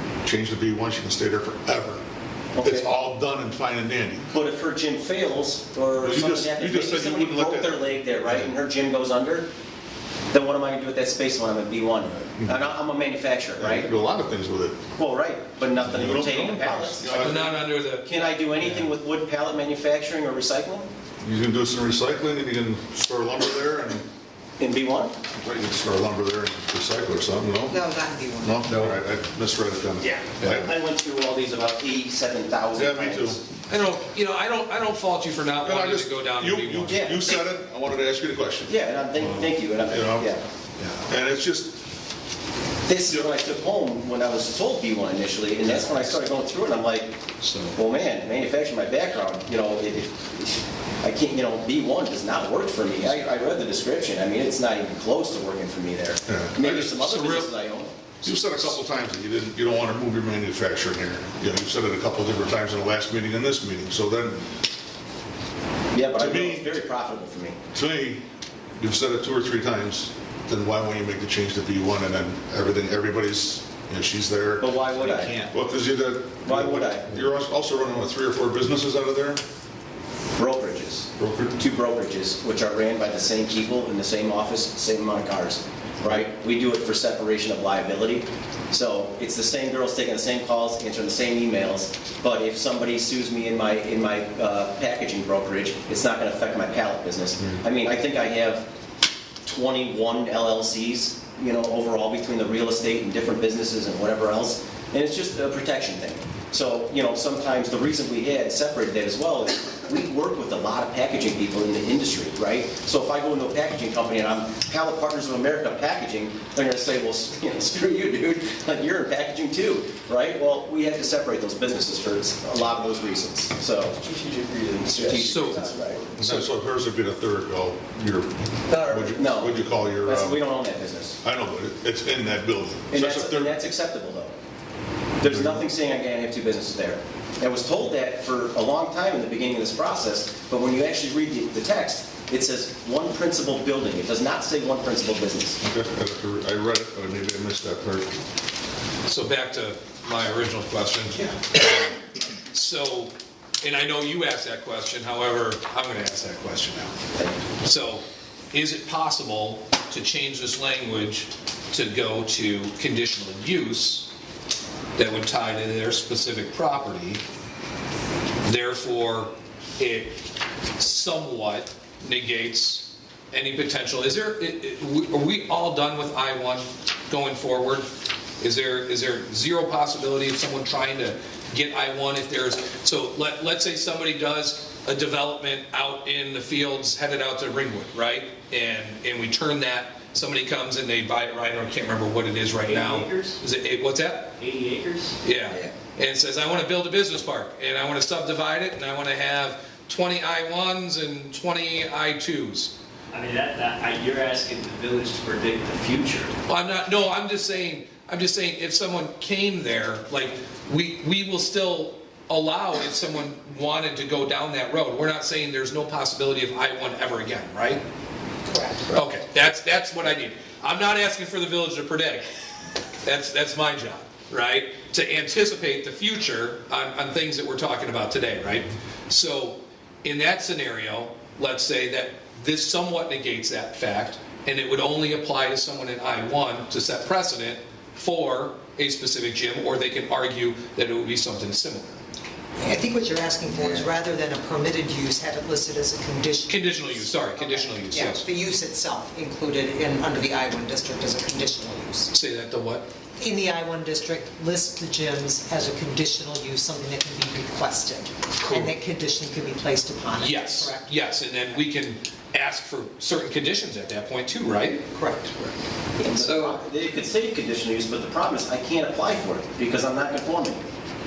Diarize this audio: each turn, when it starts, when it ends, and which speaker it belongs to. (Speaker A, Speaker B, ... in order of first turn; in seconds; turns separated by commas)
Speaker A: 0.2-2.0, Speaker B: 2.5-2.9, Speaker A: 2.6-4.3, Speaker B: 4.3-9.5, Speaker A: 6.0-8.5, Speaker B: 10.3-13.9, Speaker A: 12.2-12.7, Speaker A: 13.6-14.8, Speaker B: 15.0-17.5, Speaker A: 15.8-17.5, Speaker C: 17.1-18.9, Speaker B: 18.1-20.9, Speaker A: 21.2-24.1, Speaker B: 24.6-25.1, Speaker A: 25.4-27.8, Speaker D: 27.7-28.7, Speaker A: 28.4-30.7, Speaker B: 30.0-33.4, Speaker A: 32.7-33.4, Speaker C: 33.7-37.1, Speaker A: 35.6-40.3, Speaker B: 36.9-37.2, Speaker B: 38.6-40.4, Speaker C: 40.8-41.1, Speaker A: 41.1-41.8, Speaker B: 42.9-47.2, Speaker C: 47.4-47.8, Speaker B: 47.8-58.4, Speaker A: 56.3-57.0, Speaker C: 57.0-57.5, Speaker A: 58.2-64.5, Speaker B: 65.9-67.6, Speaker A: 66.2-66.8, Speaker A: 67.7-68.3, Speaker A: 68.8-79.4, Speaker B: 74.6-75.3, Speaker B: 76.5-77.1, Speaker B: 80.4-98.7, Speaker A: 81.2-81.6, Speaker B: 99.5-126.0, Speaker E: 124.1-125.1, Speaker C: 125.2-125.7, Speaker A: 126.2-130.4, Speaker B: 128.7-131.2, Speaker A: 131.2-133.6, Speaker B: 132.9-134.3, Speaker B: 135.2-145.6, Speaker A: 135.2-135.7, Speaker A: 145.6-148.2, Speaker C: 149.1-157.0, Speaker B: 157.2-157.4, Speaker C: 157.6-164.1, Speaker C: 165.0-167.2, Speaker C: 168.4-170.2, Speaker C: 170.8-194.4, Speaker E: 192.6-193.4, Speaker E: 194.4-195.2, Speaker C: 195.2-202.7, Speaker E: 203.1-206.3, Speaker C: 206.5-217.8, Speaker D: 218.5-218.9, Speaker C: 218.9-222.3, Speaker C: 223.0-242.0, Speaker D: 242.6-252.1, Speaker C: 246.5-248.2, Speaker C: 252.1-252.9, Speaker D: 253.2-260.9, Speaker C: 258.4-258.8, Speaker C: 260.2-264.9, Speaker D: 264.9-265.6, Speaker B: 266.0-270.7, Speaker C: 266.1-266.6